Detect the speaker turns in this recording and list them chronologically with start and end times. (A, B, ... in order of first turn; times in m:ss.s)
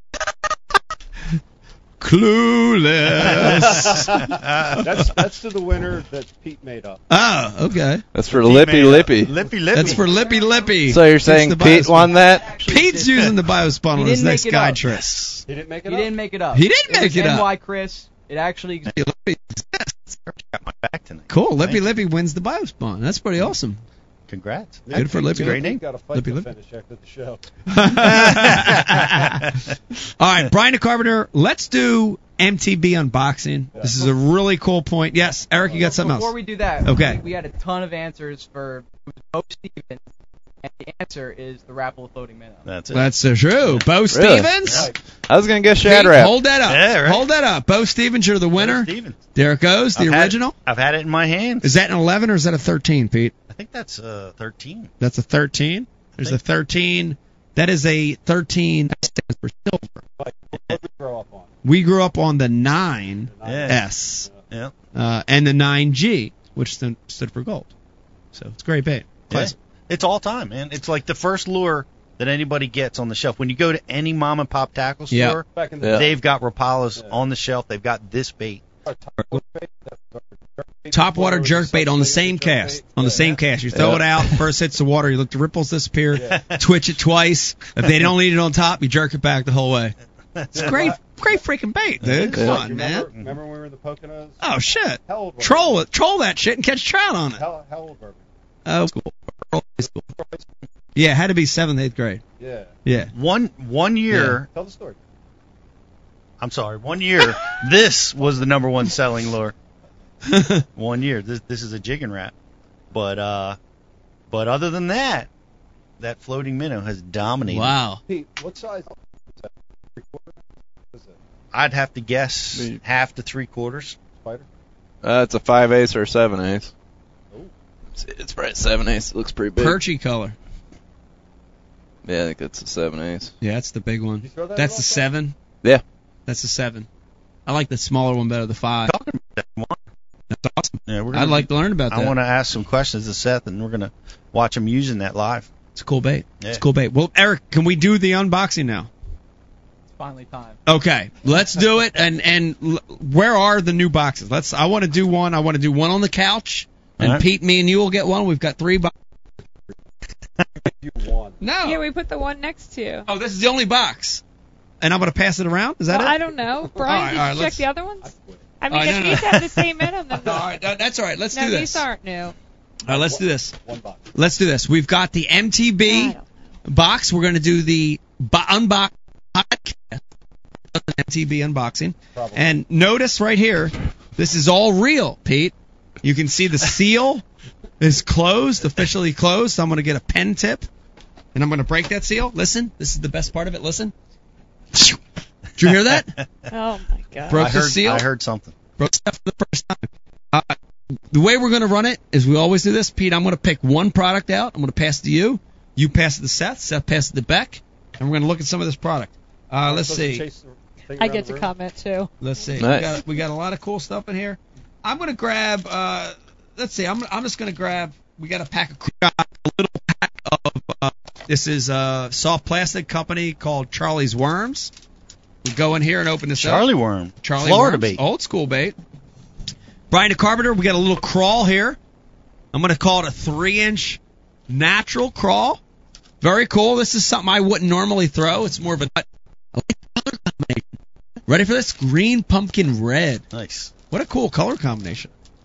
0:02.0-0:04.1 A
0:03.3-0:07.0 B
0:03.6-0:04.9 C
0:07.1-0:08.0 A
0:08.1-0:09.3 D
0:08.3-0:10.1 C
0:09.7-0:15.0 A
0:10.9-0:12.6 D
0:12.1-0:13.3 E
0:13.9-0:14.8 E
0:14.8-0:15.4 C
0:15.5-0:16.2 B
0:15.8-0:19.0 E
0:16.5-0:17.5 A
0:18.9-0:20.1 A
0:20.2-0:21.8 C
0:21.3-0:23.8 A
0:24.3-0:25.8 C
0:24.8-0:27.4 B
0:24.9-0:26.5 A
0:27.7-0:29.4 A
0:28.0-0:29.2 C
0:30.2-0:37.2 A
0:33.7-0:34.2 B
0:35.5-0:35.8 B
0:35.7-0:40.0 E
0:40.6-0:42.7 E
0:42.6-0:43.8 C
0:42.9-0:44.9 A
0:44.1-0:44.5 D
0:44.7-0:44.9 B
0:45.3-0:46.3 D
0:45.8-0:50.5 A
0:46.6-0:47.2 C
0:48.6-0:49.2 C
0:49.9-0:51.8 C
0:51.6-0:53.3 A
0:53.5-0:54.9 C
0:55.0-1:00.0 A
1:00.2-1:01.5 B
1:01.6-1:04.3 A
1:03.3-1:04.4 B
1:03.4-1:03.8 C
1:04.9-1:07.7 A
1:08.3-1:09.5 A
1:09.3-1:18.6 C
1:15.1-1:15.4 A
1:15.4-1:16.1 B
1:18.8-1:23.4 B
1:20.9-1:29.9 A
1:23.7-1:24.2 D
1:26.1-1:26.4 B
1:26.3-1:26.6 C
1:30.5-1:31.0 B
1:30.5-1:33.1 A
1:32.0-1:32.5 C
1:32.4-1:35.8 B
1:34.4-1:37.4 A
1:37.3-1:38.2 B
1:38.6-1:40.0 A
1:40.0-1:40.5 B
1:41.0-1:42.2 A
1:42.4-1:42.7 B
1:42.8-1:43.1 A
1:43.1-1:44.5 C
1:44.1-1:44.4 A
1:44.5-1:45.0 B
1:46.4-1:49.5 C
1:50.3-1:50.6 A
1:50.8-1:52.3 C
1:52.9-1:53.6 C
1:54.3-1:55.3 C
1:56.0-1:57.7 C
1:57.5-1:58.0 A
1:58.1-2:00.4 B
2:01.5-2:04.0 C
2:04.1-2:04.4 B
2:05.0-2:06.7 D
2:08.0-2:09.8 D
2:09.6-2:10.4 A
2:12.0-2:13.3 D
2:13.4-2:15.4 A
2:14.2-2:15.1 B
2:16.3-2:16.9 A
2:17.4-2:18.9 A
2:18.8-2:19.8 C
2:20.3-2:22.1 A
2:20.9-2:25.5 C
2:25.7-2:28.9 A
2:29.9-2:30.6 E
2:30.6-2:38.9 A
2:37.0-2:37.2 C
2:40.6-2:41.4 B
2:41.4-2:41.8 A
2:41.6-2:43.0 F
2:43.1-2:44.2 A
2:44.8-2:46.1 A
2:45.9-2:50.5 F
2:46.3-2:47.2 B
2:46.8-2:47.6 A
2:48.0-2:48.5 B
2:48.7-2:49.6 A
2:50.2-2:51.8 A
2:51.3-2:52.3 F
2:52.9-2:53.5 A
2:52.9-2:54.1 B
2:54.1-2:56.1 A
2:55.8-2:56.3 F
2:56.7-3:00.0 A
3:00.7-3:07.2 A
3:02.1-3:02.6 B
3:07.8-3:10.7 A
3:11.3-3:13.9 A
3:15.6-3:16.2 A
3:16.5-3:17.6 F
3:17.3-3:18.0 A
3:17.3-3:18.5 C
3:18.8-3:20.6 A
3:21.1-3:30.2 A
3:29.6-3:31.5 B
3:31.0-3:32.1 F
3:32.2-3:44.7 A
3:32.6-3:33.0 D
3:45.4-3:46.7 A
3:46.4-3:48.0 C
3:47.2-3:48.8 A
3:49.9-3:51.8 A
3:52.5-3:55.6 A
3:56.2-4:00.7 A
4:01.3-4:03.2 A
4:03.3-4:03.7 C
4:03.9-4:05.1 A